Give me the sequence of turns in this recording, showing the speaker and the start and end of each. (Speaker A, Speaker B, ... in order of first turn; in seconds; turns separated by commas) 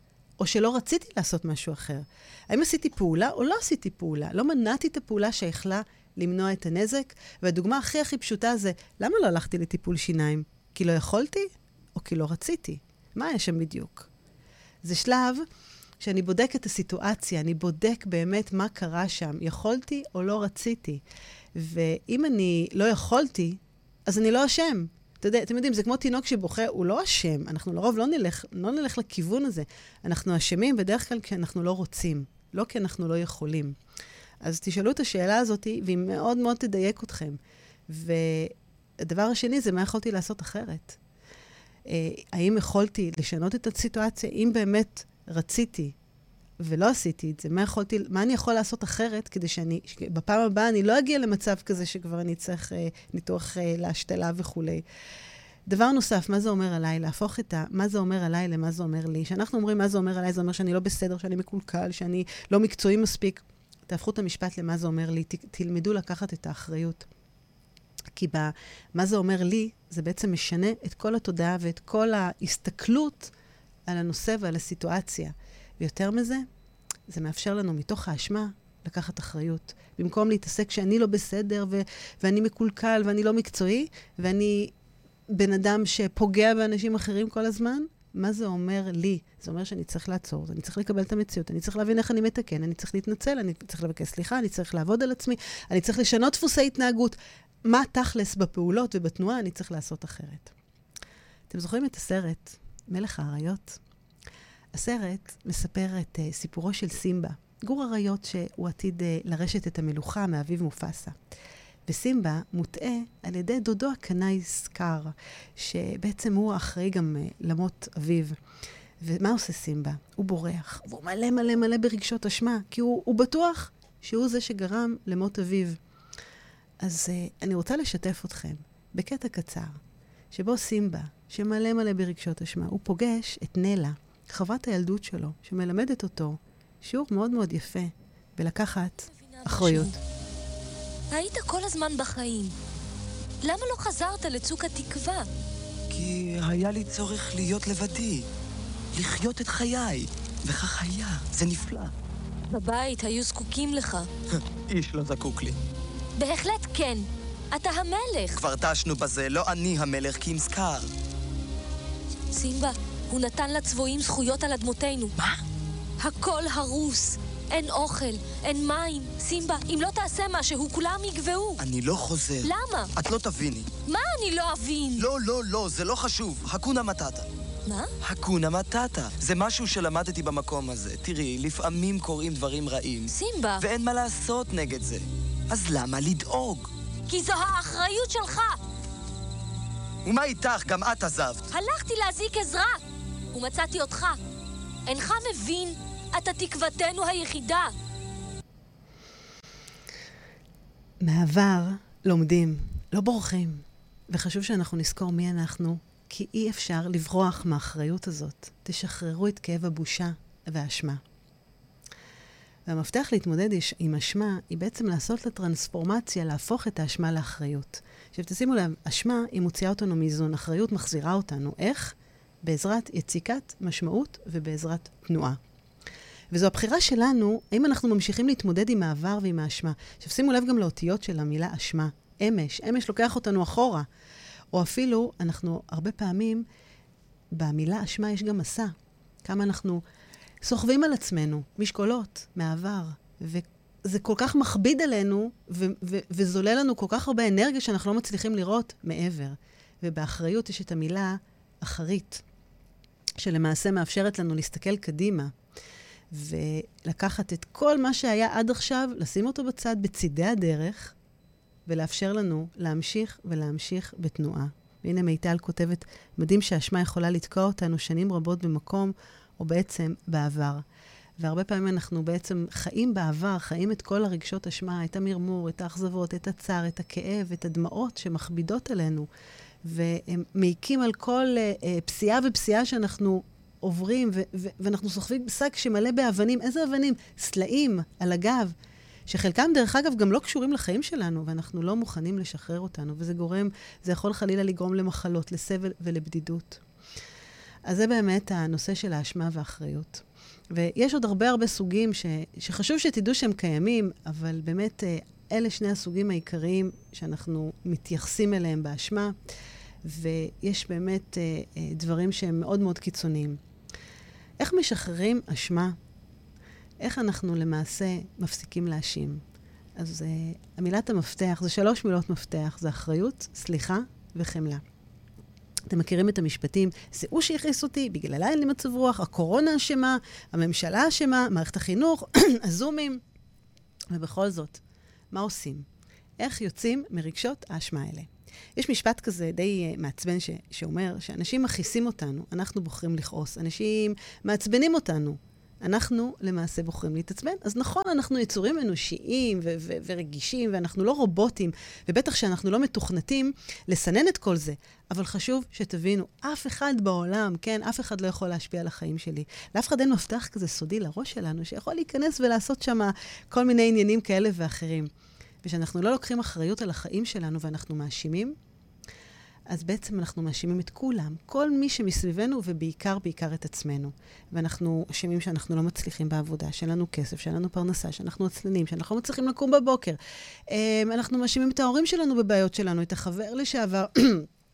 Speaker A: 0.4-14.1, Speaker A: 14.8-15.4, Speaker A: 16.0-21.0, Speaker A: 21.5-33.8, Speaker A: 34.4-41.0, Speaker A: 41.9-45.9, Speaker A: 46.6-54.8, Speaker A: 55.7-67.0, Speaker A: 68.1-73.3, Speaker A: 73.9-76.4, Speaker A: 77.1-84.7, Speaker A: 85.3-100.5, Speaker A: 101.5-103.8, Speaker A: 104.7-111.1, Speaker A: 111.9-118.3, Speaker A: 119.0-125.8, Speaker A: 126.8-129.8, Speaker A: 130.3-140.0, Speaker B: 139.3-139.9, Speaker B: 141.1-142.5, Speaker B: 143.4-145.3, Speaker C: 145.9-148.2, Speaker C: 148.9-151.9, Speaker B: 152.5-154.1, Speaker C: 154.3-155.6, Speaker B: 156.2-158.4, Speaker C: 158.3-160.9, Speaker B: 162.3-165.2, Speaker B: 166.0-171.6, Speaker C: 171.6-173.7, Speaker B: 172.4-172.9, Speaker B: 173.8-175.1, Speaker C: 175.0-177.3, Speaker B: 177.7-177.9, Speaker C: 178.0-186.7, Speaker B: 183.1-183.6, Speaker B: 187.1-188.6, Speaker C: 190.0-191.4, Speaker B: 191.5-192.8, Speaker B: 193.3-194.2, Speaker B: 194.8-197.7, Speaker A: 201.0-211.0, Speaker A: 212.7-225.4, Speaker A: 226.3-233.8, Speaker A: 234.5-236.4, Speaker A: 237.3-238.7, Speaker A: 239.2-239.8, Speaker A: 240.4-252.2, Speaker A: 253.2-255.3, Speaker A: 256.1-260.9, Speaker A: 261.6-270.6, Speaker A: 271.2-279.1, Speaker A: 279.6-288.5, Speaker A: 289.1-296.6, Speaker A: 297.6-309.1, Speaker A: 309.8-313.4, Speaker A: 314.4-315.8, Speaker A: 316.8-319.2, Speaker A: 319.8-324.6, Speaker A: 325.7-333.0, Speaker A: 333.9-335.6, Speaker A: 336.2-364.9, Speaker A: 365.4-368.3, Speaker A: 369.5-380.0, Speaker A: 380.5-384.3